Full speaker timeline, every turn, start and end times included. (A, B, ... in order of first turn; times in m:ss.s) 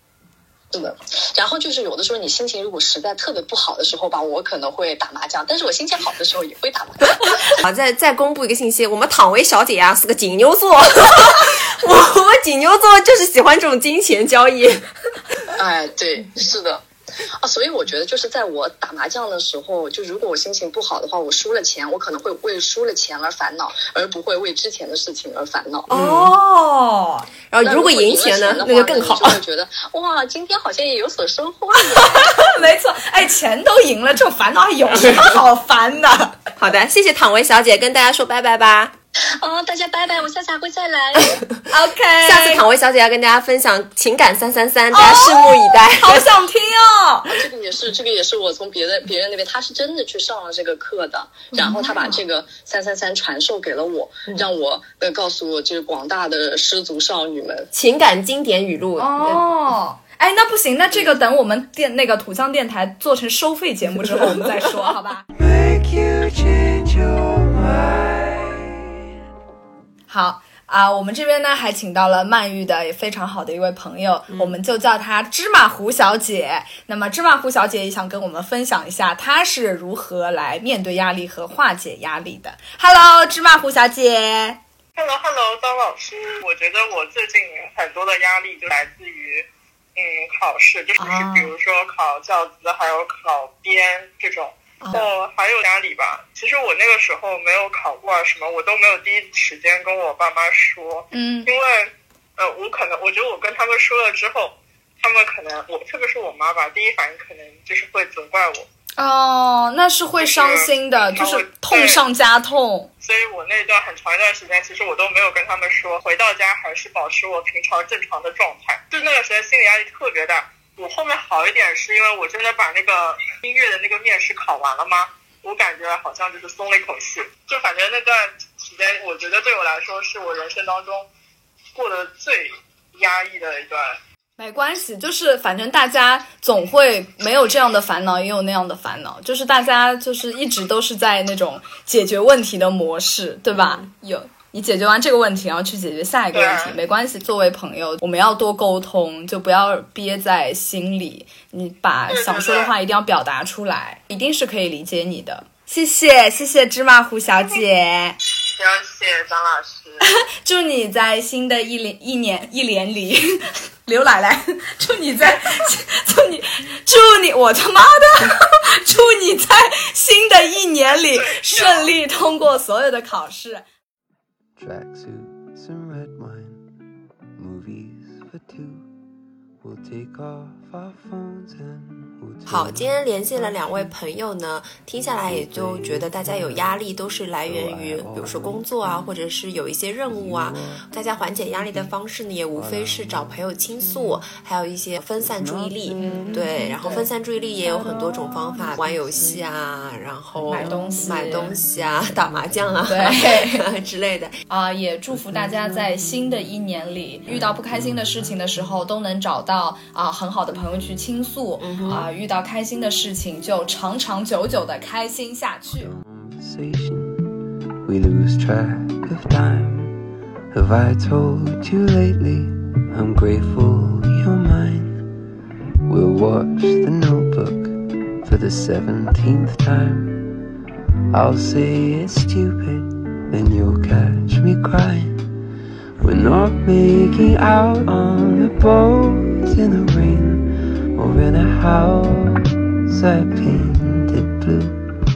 0:00.7-0:07.6 A
0:07.5-0:14.9 B
0:15.6-0:16.8 A
0:17.4-0:25.9 A
0:25.9-0:26.3 B
0:25.9-0:27.3 C
0:27.5-0:29.4 B
0:27.6-0:32.3 A
0:31.9-0:36.4 C
0:36.6-0:38.9 B
0:39.2-0:41.4 A
0:41.7-0:42.6 C
0:42.2-0:46.3 B
0:44.9-0:47.4 C
0:47.3-0:57.7 A
0:51.5-0:52.2 C
0:57.7-0:59.4 B
0:59.0-1:05.2 C
1:05.3-1:08.9 D
1:10.1-1:24.6 C
1:14.3-1:14.6 B
1:24.9-1:48.7 E
1:31.0-1:31.5 C
1:34.8-1:35.1 C
1:41.1-1:41.5 C
1:49.0-1:52.9 C
1:50.2-1:52.0 E
1:53.0-2:11.1 E
2:11.8-2:14.0 E
2:14.4-2:38.2 C
2:23.5-2:23.9 B
2:26.3-2:26.8 E
2:32.1-2:32.7 E
2:38.6-2:40.0 E
2:40.0-2:53.7 C
2:51.1-2:51.9 E
2:54.6-2:56.6 D
2:57.4-2:58.9 D
2:59.6-3:03.9 D
3:02.4-3:24.4 B
3:05.1-3:06.9 D
3:07.4-3:09.2 D
3:10.0-3:10.9 D
3:11.4-3:11.9 D
3:12.5-3:14.3 D
3:15.2-3:17.0 D
3:16.0-3:17.1 C
3:17.6-3:19.5 D
3:20.4-3:22.2 D
3:20.5-3:21.6 C
3:22.9-3:23.7 C
3:24.5-3:35.9 C
3:31.6-3:32.1 B
3:35.8-3:37.3 D
3:37.8-3:40.0 D
3:40.5-3:45.1 D
3:45.9-3:50.4 D
3:51.1-3:55.3 D
3:56.0-4:04.9 D